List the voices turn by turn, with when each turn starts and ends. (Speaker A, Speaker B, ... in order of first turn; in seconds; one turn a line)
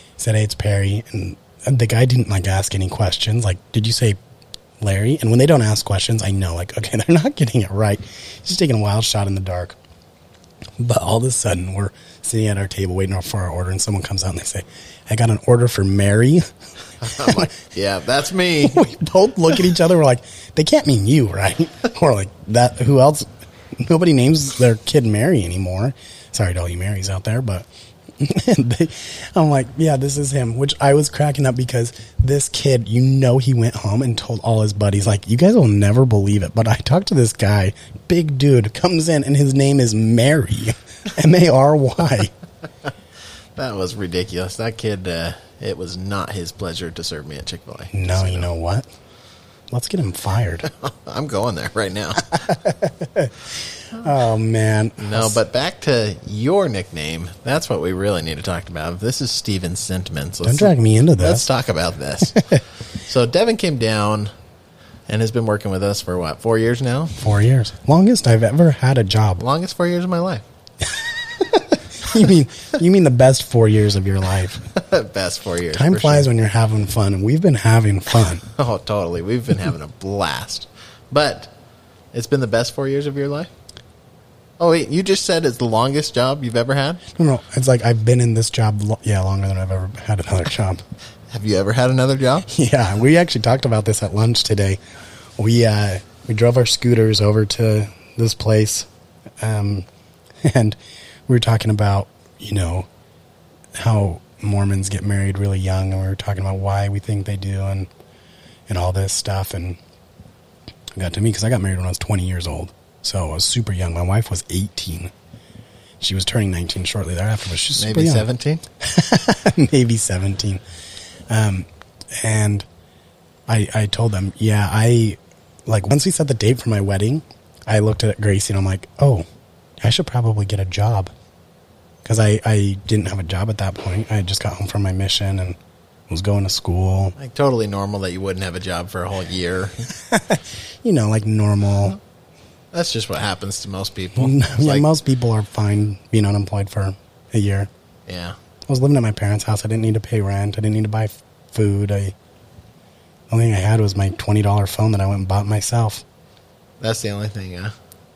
Speaker A: 0.2-4.2
Speaker A: 4.8-9.8
Speaker A: 10.8-16.4
Speaker B: 17.0-18.9
Speaker A: 17.0-17.5
Speaker A: 18.6-42.3
Speaker B: 43.5-48.5
Speaker A: 47.9-48.9
Speaker A: 49.7-50.7
Speaker B: 50.6-52.6
Speaker A: 52.4-55.4
Speaker B: 55.0-64.3
Speaker A: 60.4-61.5
Speaker A: 62.3-62.6
Speaker B: 65.1-67.2
Speaker A: 67.2-69.4
Speaker B: 69.4-70.4
Speaker A: 70.9-74.7
Speaker B: 74.7-76.3
Speaker A: 75.7-78.4
Speaker B: 78.5-81.5
Speaker B: 82.1-83.5
Speaker B: 84.6-87.0
Speaker A: 87.1-90.8
Speaker B: 91.3-92.5
Speaker A: 92.5-94.8
Speaker A: 95.4-98.9
Speaker A: 99.4-99.8
Speaker A: 100.4-102.9
Speaker A: 103.7-107.9
Speaker A: 108.7-109.8
Speaker A: 110.9-115.1
Speaker A: 116.0-118.2
Speaker B: 117.8-118.6
Speaker A: 118.8-120.6
Speaker A: 121.3-122.7
Speaker A: 123.5-129.2
Speaker A: 129.8-131.1
Speaker A: 132.0-135.6
Speaker A: 136.1-137.1
Speaker B: 137.2-139.9
Speaker A: 139.9-142.0
Speaker B: 142.7-144.8
Speaker A: 144.2-147.7
Speaker B: 148.1-148.3
Speaker A: 148.7-152.1
Speaker A: 153.3-156.0
Speaker B: 156.8-157.7